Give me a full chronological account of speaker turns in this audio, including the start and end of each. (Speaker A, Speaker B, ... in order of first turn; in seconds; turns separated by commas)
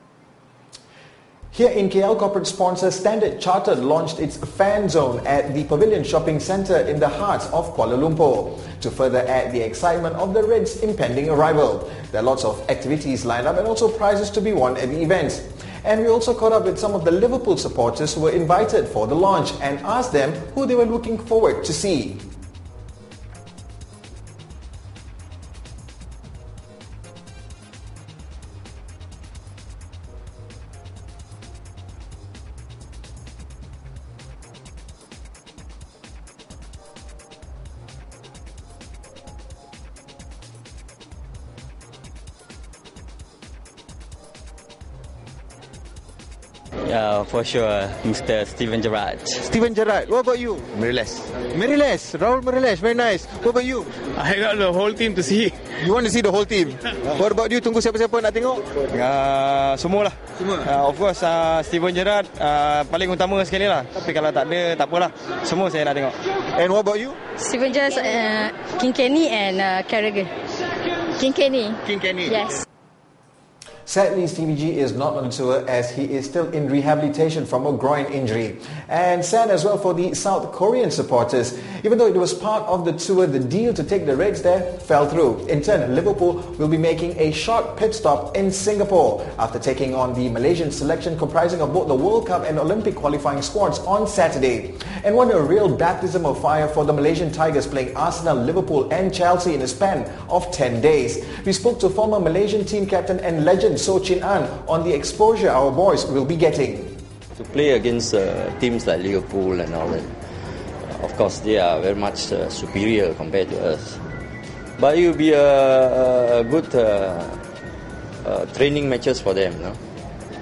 Speaker A: 1.5-22.3, Speaker B: 46.9-49.4, Speaker C: 49.4-50.7, Speaker C: 51.5-54.0, Speaker C: 55.8-58.6, Speaker D: 58.9-66.2, Speaker C: 66.6-67.2, Speaker E: 67.4-70.3, Speaker E: 71.2-72.6, Speaker C: 71.9-72.3, Speaker A: 73.9-107.0, Speaker F: 107.4-110.2, Speaker F: 110.9-114.0, Speaker F: 114.8-117.4, Speaker F: 118.2-119.8